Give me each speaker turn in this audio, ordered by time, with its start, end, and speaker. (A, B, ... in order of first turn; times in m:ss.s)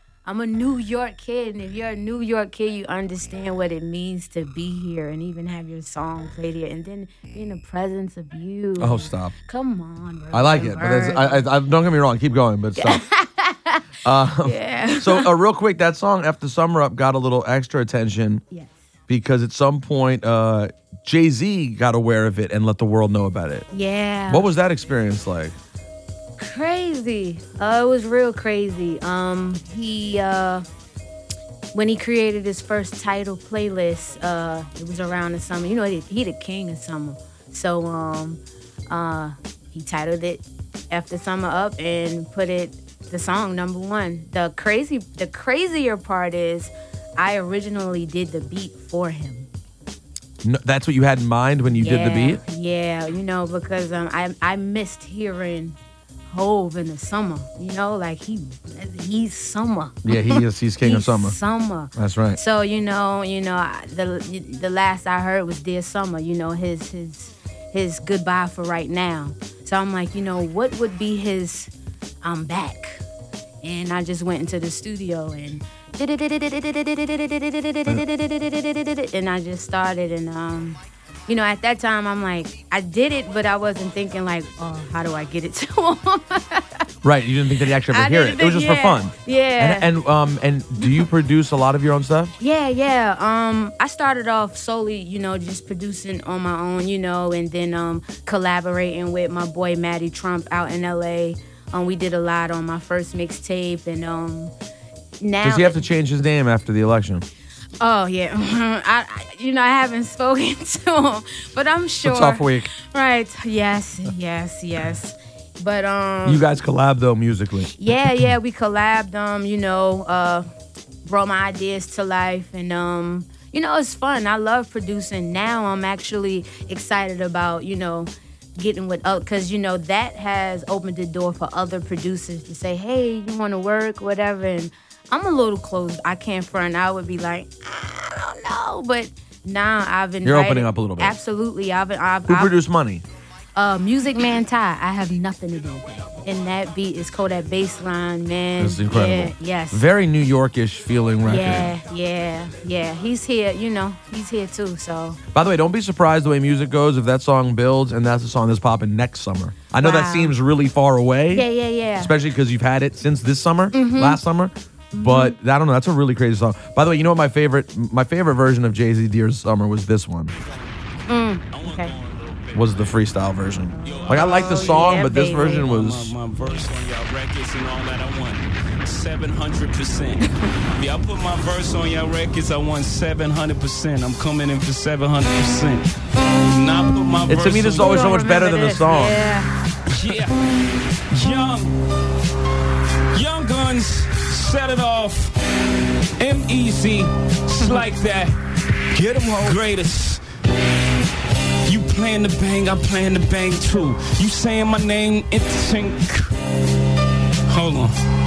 0:00.2-0:11.4 A
0:08.8-0:09.3 B
0:10.3-0:13.0 B
0:12.8-0:13.8 A
0:14.0-0:18.4 B
0:14.4-0:15.3 A
0:19.1-0:23.7 B
0:23.7-0:24.5 A
0:24.3-0:25.5 B
0:26.4-0:30.6 A
0:31.7-0:49.5 A
0:50.4-0:52.4 B
0:51.7-1:11.7 A
1:00.0-1:01.4 B
1:01.9-1:02.4 B
1:12.2-1:13.0 A
1:13.6-1:26.8 A
1:27.0-1:32.3 B
1:27.7-1:29.9 A
1:30.8-1:31.1 A
1:32.4-1:44.5 A
1:45.2-1:45.8 A
1:45.4-1:47.2 B
1:47.8-1:56.5 A
1:52.0-1:52.7 B
1:56.2-1:57.7 B
1:57.7-2:00.5 A
2:01.0-2:22.5 A
2:20.2-2:21.2 B
2:22.3-2:23.0 B
2:23.5-2:29.8 A
2:28.6-2:31.7 B
2:31.2-2:35.2 A
2:35.3-2:41.4 B
2:39.8-2:40.4 A
2:41.3-2:42.1 A
2:42.0-2:50.3 B
2:43.7-2:44.2 A
2:44.9-2:45.4 A
2:51.1-2:51.9 A
2:51.5-2:52.8 C
2:52.5-2:56.1 B
2:53.7-2:55.7 A
2:53.8-3:08.0 C
2:56.4-2:56.9 A
3:07.3-3:09.2 B
3:07.7-3:09.5 A
3:09.9-3:10.4 C
3:11.1-3:11.8 C
3:11.2-3:11.6 A
3:13.1-3:15.4 C
3:16.2-3:18.3 C
3:18.9-3:20.2 C
3:21.6-3:26.4 C
3:27.5-3:28.0 C